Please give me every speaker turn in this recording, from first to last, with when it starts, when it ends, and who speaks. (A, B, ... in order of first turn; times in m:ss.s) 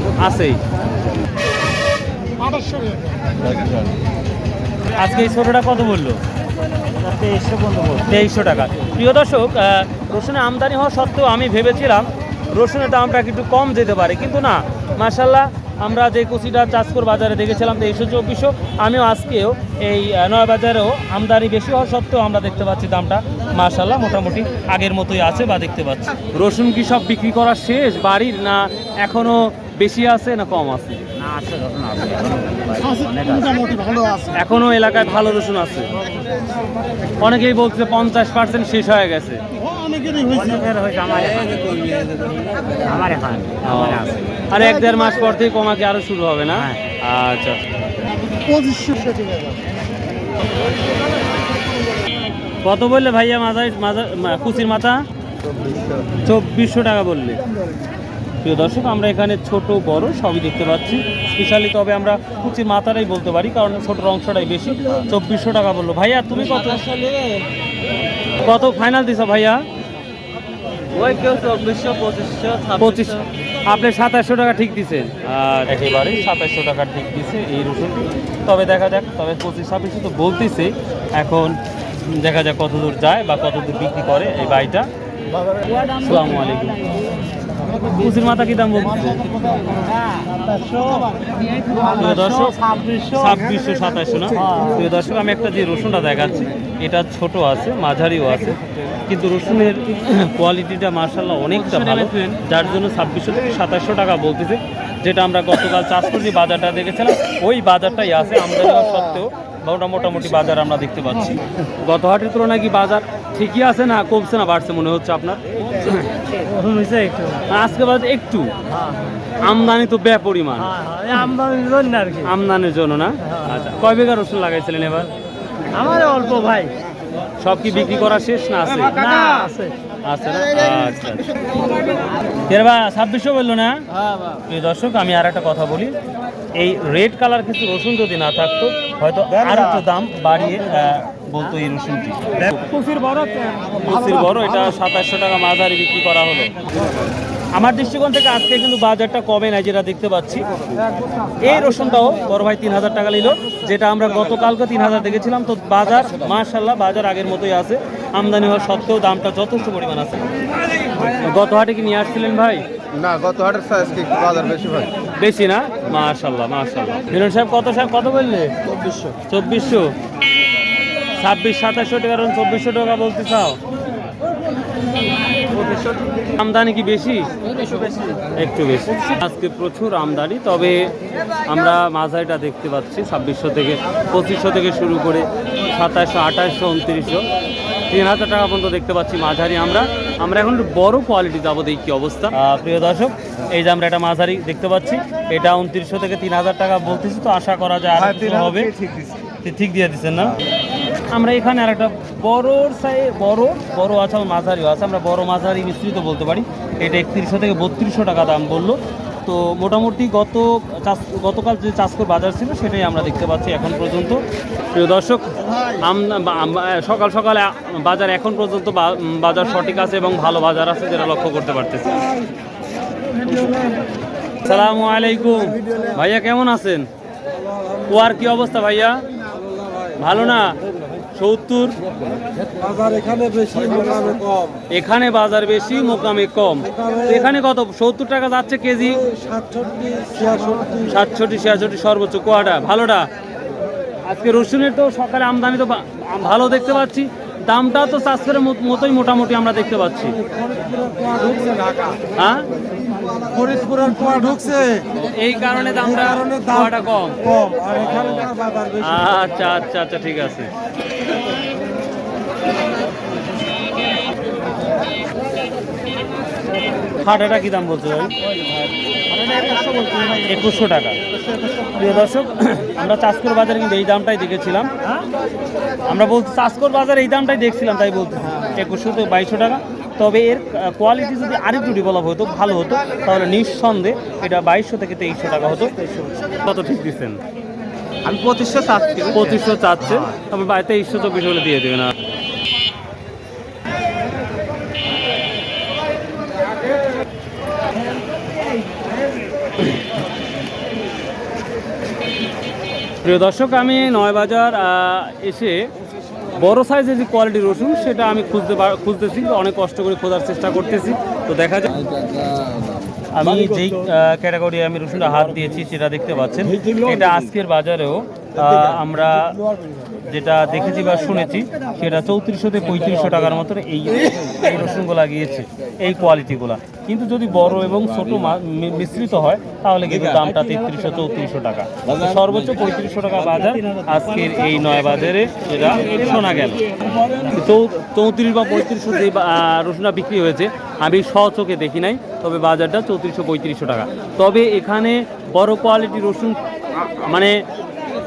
0:00.2-0:00.6 A
0:03.5-0:03.8 B
0:04.9-0:06.2 A
0:07.0-0:08.1 C
0:08.0-0:31.1 A
0:31.2-0:34.0 C
0:34.3-0:35.9 A
0:37.2-0:39.4 A
0:39.9-0:44.2 C
0:43.6-0:47.6 A
0:48.5-0:49.5 D
0:52.6-0:55.0 A
0:55.5-0:56.0 B
0:56.2-0:57.4 A
0:58.4-1:06.8 A
1:06.6-1:07.4 C
1:08.3-1:09.6 A
1:10.9-1:13.2 C
1:12.8-1:24.9 A
1:25.7-1:26.9 A
1:27.9-1:29.3 A
1:30.3-1:33.1 C
1:31.9-1:56.1 A
1:34.4-1:34.7 C
1:41.9-1:42.3 C
1:56.4-1:57.4 C
1:57.4-1:58.6 A
1:58.7-1:59.0 C
1:59.4-2:00.8 A
2:00.6-2:02.3 C
2:02.2-2:05.1 A
2:05.7-2:06.8 C
2:07.4-2:09.4 A
2:08.9-2:09.7 C
2:10.0-2:11.4 A
2:12.4-2:13.8 A
2:14.4-2:16.0 A
2:16.6-2:23.0 A
2:23.0-2:23.5 C
2:23.7-2:26.6 A
2:27.5-2:30.5 A
2:31.4-2:40.3 A
2:41.0-2:42.6 A
2:43.0-2:44.9 B
2:45.2-2:48.5 A
2:48.8-2:49.1 B
2:49.3-2:49.9 A
2:51.2-2:53.6 A
2:56.2-2:57.3 A
2:58.3-3:07.2 A
3:07.9-3:18.7 A
3:18.0-3:19.2 B
3:19.4-3:20.4 A
3:21.1-3:34.2 A
3:34.7-3:42.1 A
3:43.3-3:43.7 A
3:44.4-3:46.9 A
3:47.8-3:49.0 A
3:49.9-3:50.6 A
3:51.1-3:51.8 A
3:54.7-3:59.1 A
4:00.4-4:03.1 A
4:04.0-4:10.2 A
4:10.9-4:11.9 D
4:12.1-4:12.5 A
4:13.3-4:14.8 D
4:14.9-4:20.5 A
4:27.0-4:28.1 A
4:29.2-4:30.1 C
4:30.1-4:31.0 A
4:31.7-4:34.7 A
4:35.9-4:47.2 A
4:48.0-4:49.4 C
4:49.1-4:51.9 A
5:03.0-5:05.7 A
5:06.3-5:11.8 A
5:13.1-5:19.4 A
5:20.0-5:47.4 A